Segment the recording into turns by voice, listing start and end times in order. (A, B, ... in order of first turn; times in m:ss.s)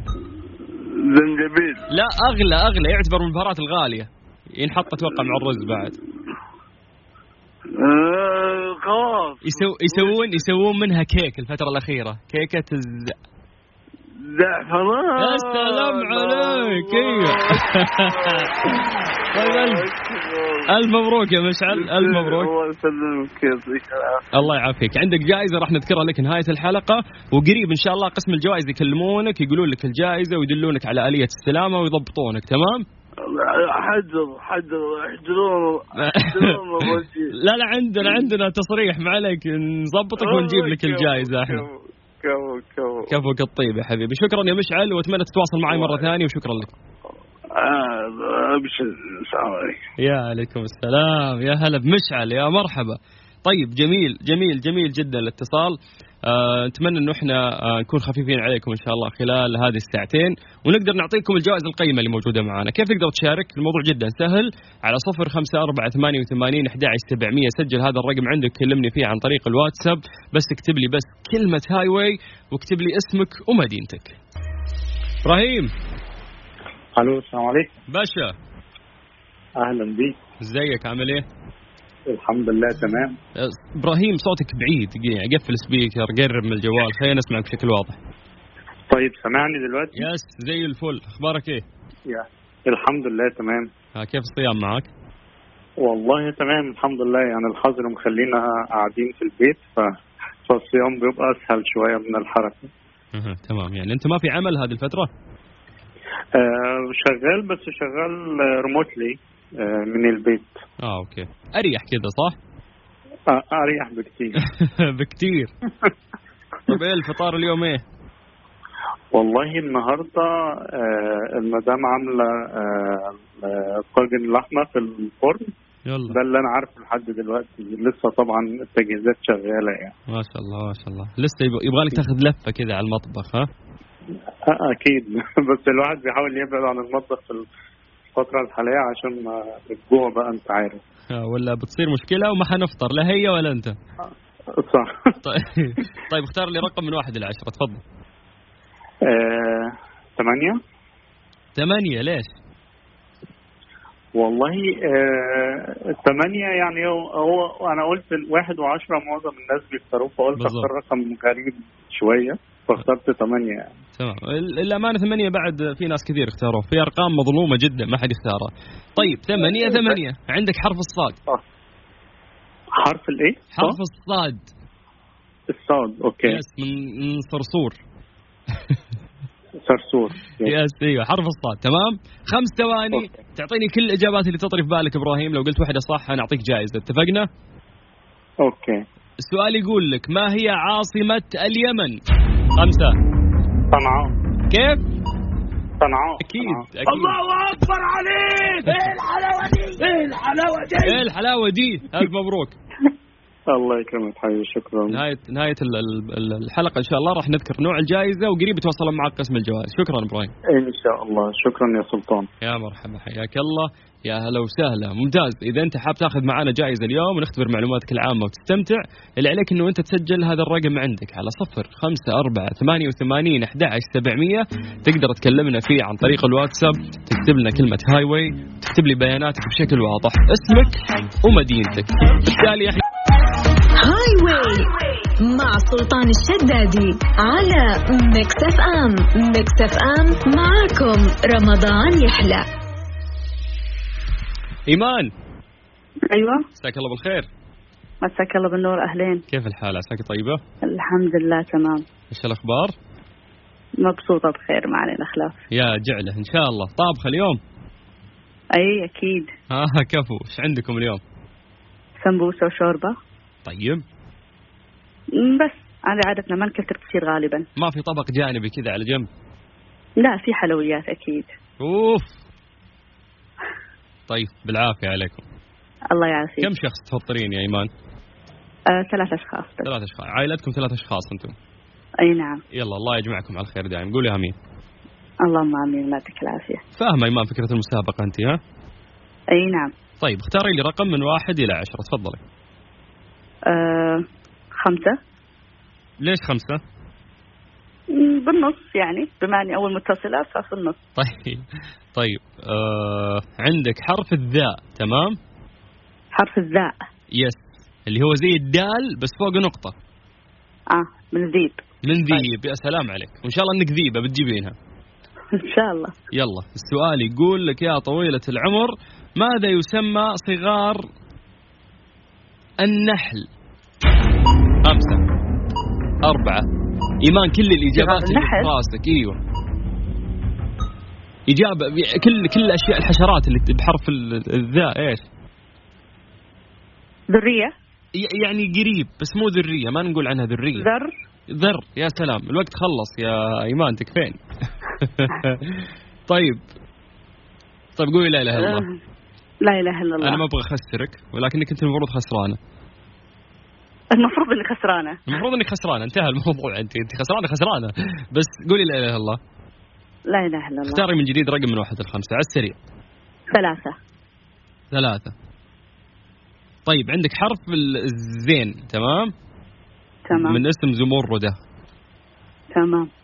0:00.8-0:01.8 A
0:01.9-0:06.0 B
0:05.1-0:05.6 A
0:07.8-0:10.3 A
0:09.4-0:13.2 B
0:14.2-0:20.7 A
0:15.2-0:18.7 B
0:19.3-0:19.9 B
0:20.7-0:22.5 B
0:21.7-0:24.3 A
0:24.3-0:32.8 B
0:33.2-0:37.3 A
0:36.0-0:41.6 B
0:38.0-0:38.3 A
0:40.2-0:43.2 A
0:43.1-0:46.7 B
0:45.7-0:46.1 A
0:47.6-0:49.8 A
0:50.0-1:14.2 B
1:15.2-1:15.7 B
1:17.0-1:17.7 C
1:17.9-1:18.4 B
1:19.6-1:20.2 C
1:20.4-1:21.3 B
1:22.1-1:23.2 C
1:23.4-1:28.0 B
1:28.9-1:30.0 C
1:30.0-1:31.6 B
1:32.1-1:33.7 C
1:34.0-1:34.9 B
1:35.8-1:40.0 C
1:40.5-1:42.7 C
1:43.1-1:45.1 B
1:46.3-1:50.6 C
1:50.8-1:52.4 B
1:53.3-1:54.4 C
1:54.4-1:55.5 B
1:56.7-1:57.8 B
1:59.1-2:05.5 C
2:05.9-2:06.2 B
2:06.1-2:09.9 C
2:10.1-2:13.5 B
2:14.5-2:17.5 C
2:18.1-2:20.8 C
2:21.1-2:23.8 B
2:24.6-2:25.1 C
2:25.2-2:27.8 B
2:29.0-2:30.6 C
2:31.6-2:32.3 B
2:34.2-2:43.7 C
2:40.4-2:40.7 B
2:44.0-2:51.2 B
2:49.1-2:50.0 C
2:52.8-2:53.8 C
2:53.5-2:54.5 B
2:55.5-2:56.4 C
2:56.3-2:57.8 B
2:59.6-3:00.5 C
3:00.4-3:07.3 B
3:08.4-3:08.8 C
3:09.2-3:12.0 B
3:12.6-3:13.0 B
3:13.7-3:14.1 C
3:14.5-3:14.8 B
3:15.8-3:16.6 C
3:16.2-3:17.2 B
3:16.9-3:21.0 D
3:20.8-3:22.6 B
3:23.5-3:25.0 C
3:24.9-3:30.3 B
3:30.5-3:32.3 C
3:32.4-3:52.8 B
3:53.8-4:02.5 E
4:04.7-4:05.1 B
4:06.1-4:06.4 D
4:06.6-4:07.3 B
4:08.0-4:09.2 D
4:09.3-4:10.4 B
4:10.6-4:11.8 D
4:12.1-4:12.7 B
4:13.8-4:15.4 D
4:15.5-4:17.4 B
4:18.6-4:19.3 D
4:19.5-4:21.0 B
4:22.0-4:23.0 D
4:23.4-4:23.8 B
4:25.2-4:27.5 D
4:27.6-4:29.1 B
4:30.0-4:31.3 D
4:31.6-4:32.2 B
4:34.1-4:35.2 B
4:35.9-4:36.5 D
4:36.4-4:37.7 B
4:38.7-4:39.7 D
4:39.6-4:41.3 B
4:42.0-4:42.4 D
4:42.5-4:44.4 B
4:45.2-4:46.6 D
4:46.8-4:48.4 B
4:49.3-4:49.7 D
4:50.0-4:52.2 B
4:53.5-4:54.0 D
4:54.6-4:55.0 D
4:56.0-4:56.6 B
4:57.9-5:00.8 D
5:01.0-5:01.4 B
5:02.0-5:05.2 B
5:06.1-5:06.8 D
5:07.2-5:09.7 B
5:10.7-5:12.2 D
5:11.8-5:14.6 B
5:15.3-5:16.0 D
5:16.1-5:20.8 B
5:22.6-5:23.3 B
5:24.6-5:25.0 B
5:26.0-5:26.5 B
5:27.0-5:29.2 B
5:27.8-5:28.5 D
5:31.3-5:35.0 B
5:37.1-5:37.5 D
5:38.0-5:40.7 B
5:40.6-5:40.9 D
5:41.3-5:44.2 B
5:44.8-5:46.4 B
5:47.8-5:48.7 B
5:48.4-5:48.8 D
5:49.4-5:50.2 D
5:50.0-5:52.4 B
5:53.9-5:55.0 D
5:55.1-5:59.2 B
6:00.1-6:00.8 D
6:00.6-6:02.6 B
6:03.3-6:03.8 D
6:04.7-6:05.1 B
6:06.7-6:09.1 B
6:10.1-6:10.4 D
6:10.1-6:11.4 B
6:12.5-6:12.9 D